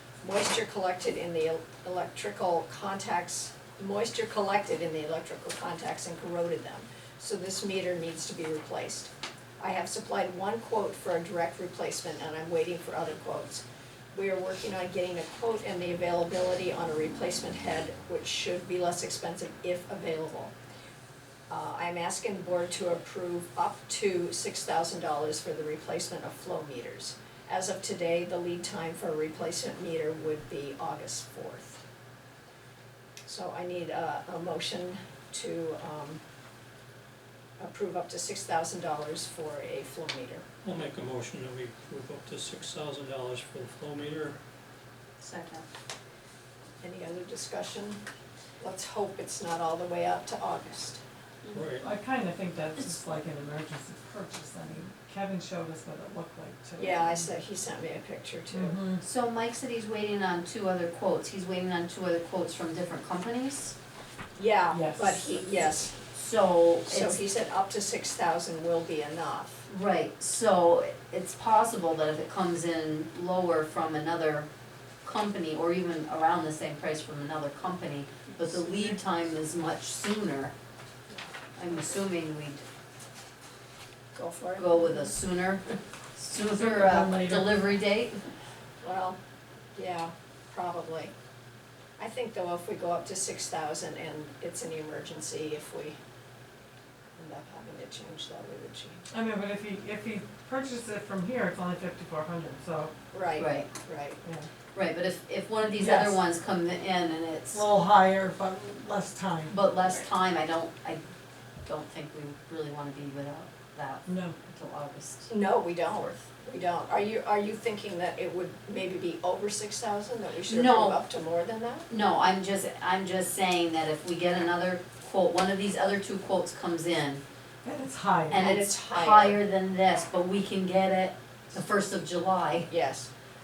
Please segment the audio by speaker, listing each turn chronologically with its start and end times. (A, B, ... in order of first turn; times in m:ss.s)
0:00.2-0:20.5 A
0:21.5-0:31.8 A
0:33.2-0:36.2 A
0:37.6-0:40.4 A
0:40.6-0:44.4 B
0:45.2-0:45.6 C
0:46.8-0:48.0 A
0:48.6-0:51.0 A
0:51.5-0:51.9 B
0:51.8-0:57.3 D
0:56.8-0:58.8 A
0:58.5-0:59.0 D
0:59.0-1:03.8 C
1:04.4-1:06.0 A
1:04.7-1:05.2 D
1:06.1-1:07.2 C
1:06.9-1:09.7 A
1:09.7-1:14.5 C
1:15.0-1:20.5 C
1:21.6-1:22.6 C
1:24.1-1:25.1 A
1:24.6-1:28.2 C
1:26.5-1:27.6 D
1:28.8-1:29.2 A
1:29.8-1:31.1 A
1:32.0-1:36.0 A
1:37.2-1:39.0 A
1:39.1-1:42.9 D
1:43.1-1:44.2 A
1:43.4-1:43.7 C
1:44.7-1:47.6 C
1:45.8-1:46.2 D
1:47.5-1:49.6 D
1:49.5-1:51.0 C
1:51.6-1:55.3 C
1:54.0-1:54.4 D
1:55.3-2:01.9 A
2:00.5-2:01.0 C
2:01.9-2:07.2 C
2:07.6-2:08.5 D
2:08.3-2:12.7 C
2:08.3-2:09.4 A
2:12.7-2:13.1 A